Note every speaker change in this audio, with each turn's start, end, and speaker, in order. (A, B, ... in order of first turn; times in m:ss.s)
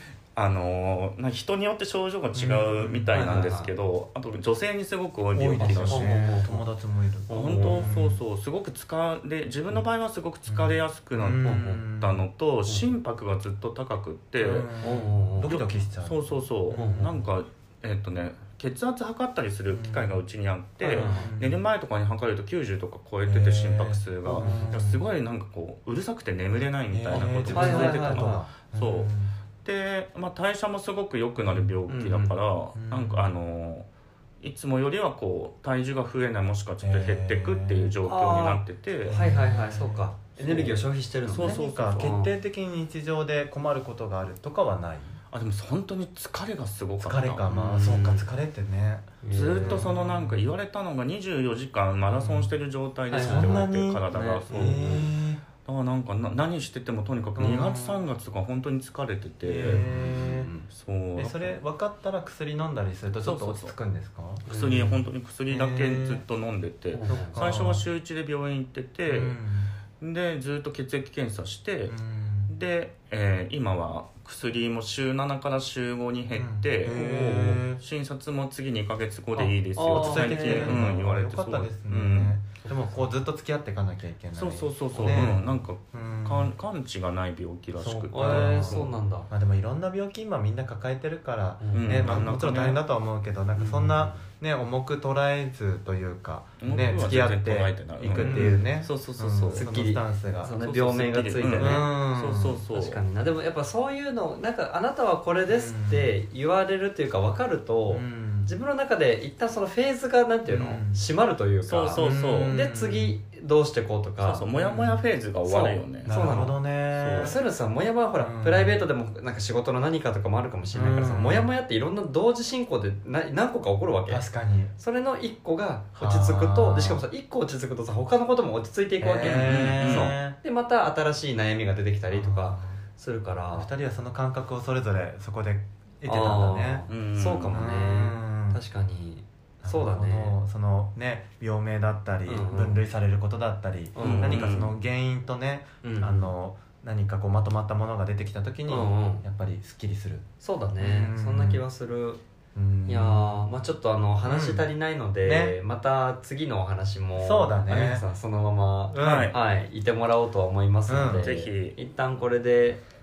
0:00.4-0:06.4 A
0:02.4-0:03.2 B
0:03.1-0:03.7 C
0:05.3-0:08.2 B
0:05.6-0:06.6 C
0:07.3-0:07.9 C
0:07.3-0:14.7 A
0:10.5-0:12.2 B
0:11.4-0:11.8 C
0:14.4-0:17.2 B
0:14.8-0:15.5 C
0:15.4-0:33.9 A
0:16.7-0:17.1 C
0:19.7-0:20.1 B
0:20.8-0:21.6 B
0:20.9-0:21.3 C
0:23.2-0:25.1 B
0:24.2-0:24.8 C
0:26.9-0:29.3 B
0:27.5-0:28.4 C
0:31.4-0:31.7 B
0:31.9-0:32.3 C
0:32.8-0:33.3 B
0:34.4-0:39.2 A
0:36.8-0:38.0 B
0:38.0-0:42.3 C
0:39.0-0:40.7 B
0:40.4-0:42.2 A
0:41.4-0:45.2 B
0:45.3-0:47.5 A
0:47.0-0:50.5 B
0:47.5-0:48.3 C
0:49.2-0:49.9 C
0:49.3-0:55.1 A
0:52.1-0:52.5 B
0:53.1-0:55.1 C
0:53.2-0:55.4 B
0:55.6-0:59.9 A
0:57.4-0:58.0 B
0:57.4-0:57.7 C
0:59.4-1:00.5 B
0:59.6-1:00.7 C
1:00.6-1:01.6 A
1:01.2-1:04.5 B
1:03.2-1:03.7 A
1:04.5-1:05.0 C
1:04.5-1:09.4 A
1:05.5-1:06.2 B
1:06.9-1:07.5 C
1:07.1-1:07.9 B
1:09.1-1:09.7 B
1:10.0-1:22.4 A
1:11.9-1:12.5 B
1:16.4-1:17.8 B
1:19.4-1:20.8 C
1:19.9-1:26.5 B
1:22.6-1:23.1 C
1:24.4-1:28.9 A
1:27.8-1:40.6 B
1:28.1-1:29.3 C
1:31.6-1:32.3 C
1:31.7-1:32.8 A
1:33.6-1:34.2 C
1:36.6-1:39.7 A
1:38.2-1:38.6 C
1:39.5-1:42.0 C
1:40.6-1:43.0 A
1:41.4-1:42.6 B
1:42.7-1:54.7 C
1:45.5-1:46.1 B
1:47.9-1:48.5 B
1:50.5-1:51.0 B
1:51.6-1:52.6 A
1:52.0-1:53.2 B
1:54.2-1:56.2 A
1:54.6-1:55.0 B
1:55.4-1:56.6 C
1:56.0-1:57.4 B
1:56.9-1:57.4 A
1:57.2-2:04.2 C
1:58.2-1:58.8 B
2:00.7-2:01.5 B
2:04.1-2:04.7 B
2:04.8-2:13.7 C
2:06.0-2:07.0 B
2:09.0-2:10.4 B
2:09.2-2:10.2 A
2:12.1-2:12.8 B
2:13.5-2:16.9 B
2:16.0-2:20.4 C
2:16.9-2:17.6 A
2:17.5-2:18.6 B
2:19.6-2:30.3 B
2:22.3-2:22.8 C
2:24.0-2:24.6 C
2:24.0-2:24.8 A
2:25.8-2:26.3 C
2:28.7-2:29.2 C
2:30.4-2:32.2 C
2:30.8-2:31.6 B
2:32.6-2:33.5 B
2:32.9-2:42.8 C
2:34.2-2:34.7 B
2:35.2-2:35.6 B
2:37.2-2:38.1 B
2:38.9-2:39.4 B
2:39.0-2:39.4 A
2:40.9-2:41.3 B
2:41.2-2:41.8 A